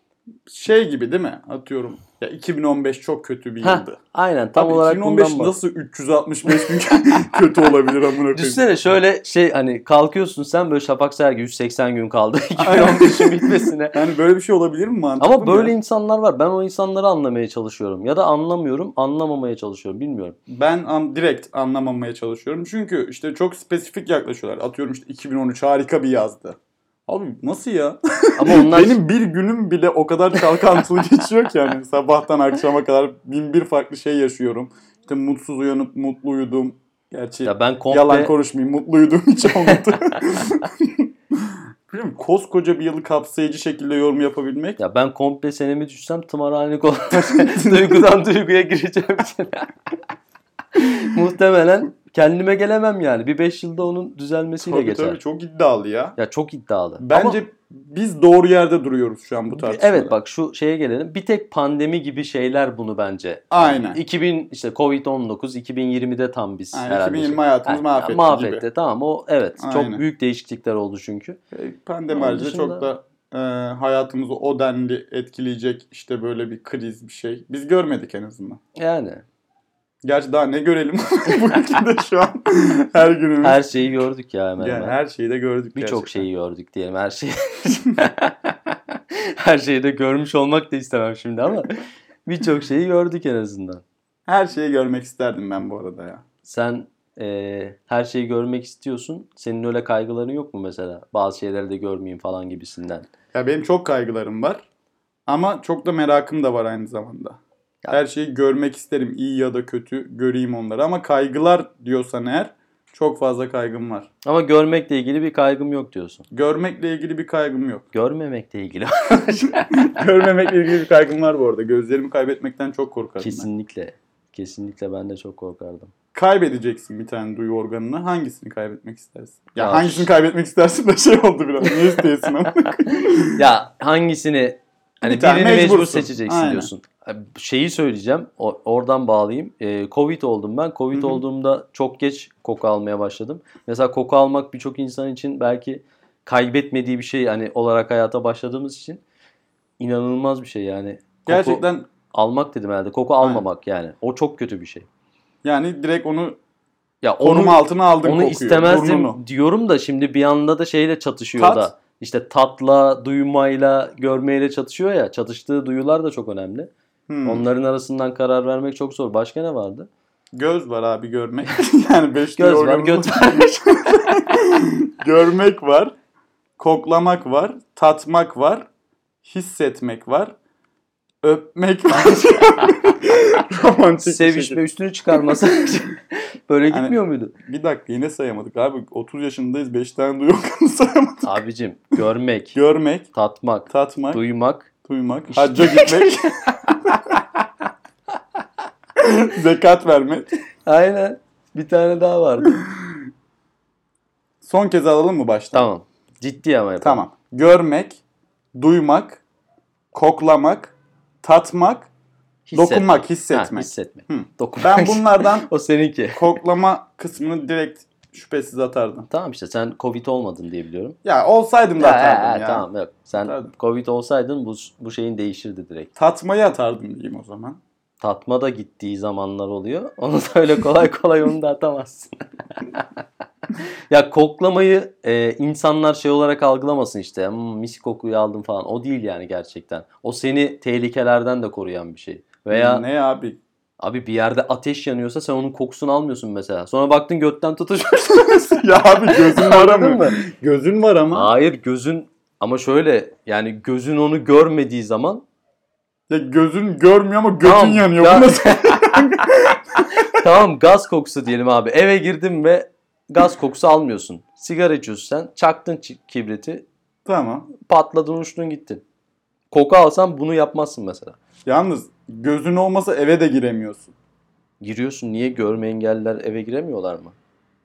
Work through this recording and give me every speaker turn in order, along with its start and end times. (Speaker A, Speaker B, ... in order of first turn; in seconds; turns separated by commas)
Speaker A: 0.5-4.0, Speaker B: 3.6-5.5, Speaker A: 4.5-8.8, Speaker B: 8.3-14.0, Speaker A: 12.6-15.7, Speaker B: 15.2-20.4, Speaker A: 20.5-44.8, Speaker B: 28.4-29.0, Speaker B: 37.4-38.3, Speaker B: 44.8-49.7, Speaker A: 47.1-48.0, Speaker B: 50.7-55.2, Speaker A: 54.6-56.2, Speaker B: 56.2-57.4, Speaker A: 57.0-60.1, Speaker B: 59.5-71.4, Speaker A: 63.5-64.0, Speaker A: 66.7-68.6, Speaker A: 69.6-70.0, Speaker A: 71.5-78.6, Speaker B: 72.1-72.9, Speaker B: 78.8-79.2, Speaker A: 80.0-83.6, Speaker B: 83.4-85.0, Speaker A: 84.6-86.3, Speaker B: 85.8-93.8, Speaker A: 94.3-96.2, Speaker B: 96.5-103.1, Speaker A: 103.3-104.6, Speaker A: 105.3-107.4, Speaker A: 107.9-114.1, Speaker B: 114.2-116.2, Speaker A: 116.3-117.8, Speaker B: 117.9-120.0, Speaker A: 119.5-123.5, Speaker B: 123.2-125.9, Speaker A: 126.1-133.4, Speaker B: 129.6-130.1, Speaker B: 133.4-149.0, Speaker A: 135.0-136.7, Speaker A: 140.9-141.2, Speaker B: 149.8-154.9, Speaker A: 151.3-151.9, Speaker A: 155.4-156.4, Speaker B: 157.0-166.7, Speaker A: 157.2-159.2, Speaker A: 161.4-161.7, Speaker A: 167.1-167.4, Speaker B: 167.2-169.9, Speaker A: 170.3-175.9, Speaker B: 172.4-174.2, Speaker A: 176.6-178.7, Speaker A: 179.2-180.3, Speaker A: 181.2-184.6, Speaker B: 184.0-187.3, Speaker A: 186.7-191.3, Speaker B: 191.2-192.6, Speaker A: 192.6-193.1, Speaker B: 193.1-194.7, Speaker A: 193.7-194.2, Speaker A: 194.8-197.2, Speaker B: 195.3-196.3, Speaker A: 199.0-200.3, Speaker B: 200.7-202.6, Speaker A: 204.4-205.7, Speaker B: 205.5-207.0, Speaker A: 206.8-208.0, Speaker A: 208.5-209.2, Speaker A: 209.9-211.9, Speaker B: 212.5-216.4, Speaker A: 212.5-215.5, Speaker A: 216.1-219.1, Speaker B: 219.1-221.0, Speaker A: 221.0-222.7, Speaker B: 221.8-225.9, Speaker A: 223.2-223.5, Speaker A: 226.0-227.6, Speaker B: 228.0-232.8, Speaker B: 233.9-242.8, Speaker A: 242.5-243.4, Speaker B: 243.8-250.2, Speaker A: 248.5-251.3, Speaker B: 251.1-255.2, Speaker A: 256.1-260.1, Speaker B: 257.4-259.1, Speaker B: 260.0-266.7, Speaker A: 267.1-267.5, Speaker B: 267.6-268.8, Speaker B: 269.5-271.2, Speaker A: 271.5-273.9, Speaker B: 274.6-277.1